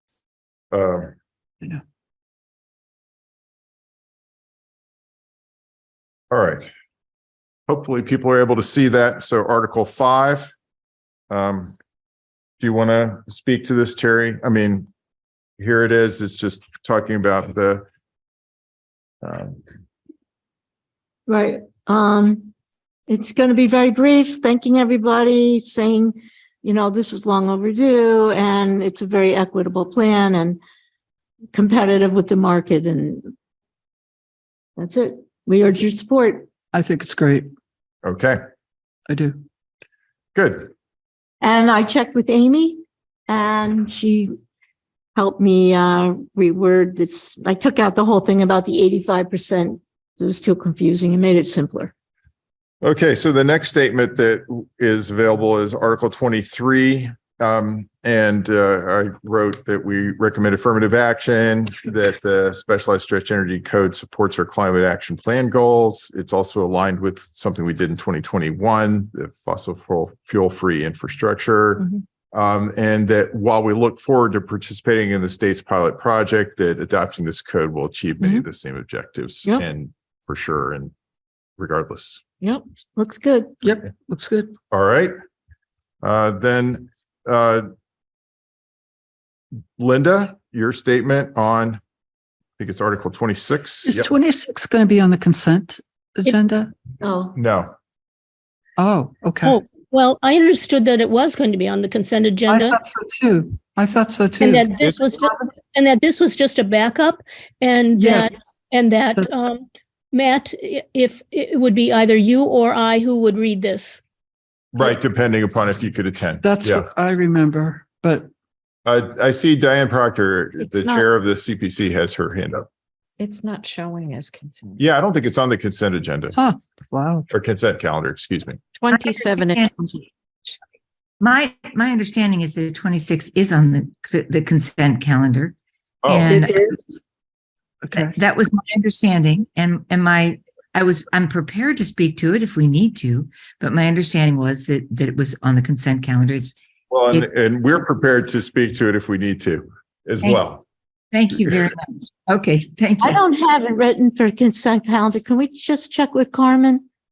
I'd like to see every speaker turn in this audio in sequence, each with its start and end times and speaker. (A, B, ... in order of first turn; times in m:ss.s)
0:00.7-0:01.1 A
0:06.3-0:06.7 A
0:07.7-0:10.5 A
0:11.3-0:11.8 A
0:12.6-0:14.9 A
0:15.6-0:17.9 A
0:19.2-0:19.6 A
0:21.3-0:22.5 B
0:23.1-0:30.6 B
0:31.5-0:33.3 B
0:34.8-0:36.5 B
0:36.7-0:37.5 C
0:38.0-0:38.4 A
0:39.1-0:39.4 C
0:40.4-0:40.7 A
0:41.4-0:44.3 B
0:45.2-0:51.9 B
0:52.8-1:20.9 A
1:21.6-1:22.2 A
1:22.4-1:23.5 B
1:23.6-1:24.6 C
1:24.7-1:25.1 A
1:26.0-1:27.7 A
1:29.8-1:31.8 A
1:32.6-1:34.1 A
1:33.9-1:36.7 C
1:37.0-1:37.4 B
1:37.4-1:37.7 A
1:38.8-1:39.6 C
1:39.4-1:42.8 D
1:42.5-1:45.0 C
1:44.4-1:54.0 D
1:48.0-1:48.3 C
1:49.2-1:49.4 C
1:54.7-1:56.9 A
1:56.4-1:58.3 C
1:58.9-2:02.7 A
2:00.6-2:01.0 E
2:03.2-2:04.8 E
2:04.8-2:06.4 A
2:06.4-2:07.3 C
2:07.3-2:08.6 A
2:08.8-2:10.0 E
2:08.9-2:09.8 F
2:11.2-2:15.6 F
2:16.0-2:16.5 A
2:16.1-2:16.6 F
2:16.3-2:17.0 C
2:17.8-2:18.2 C
2:18.1-2:26.6 F
2:26.9-2:30.6 A
2:31.1-2:33.2 F
2:33.0-2:36.8 B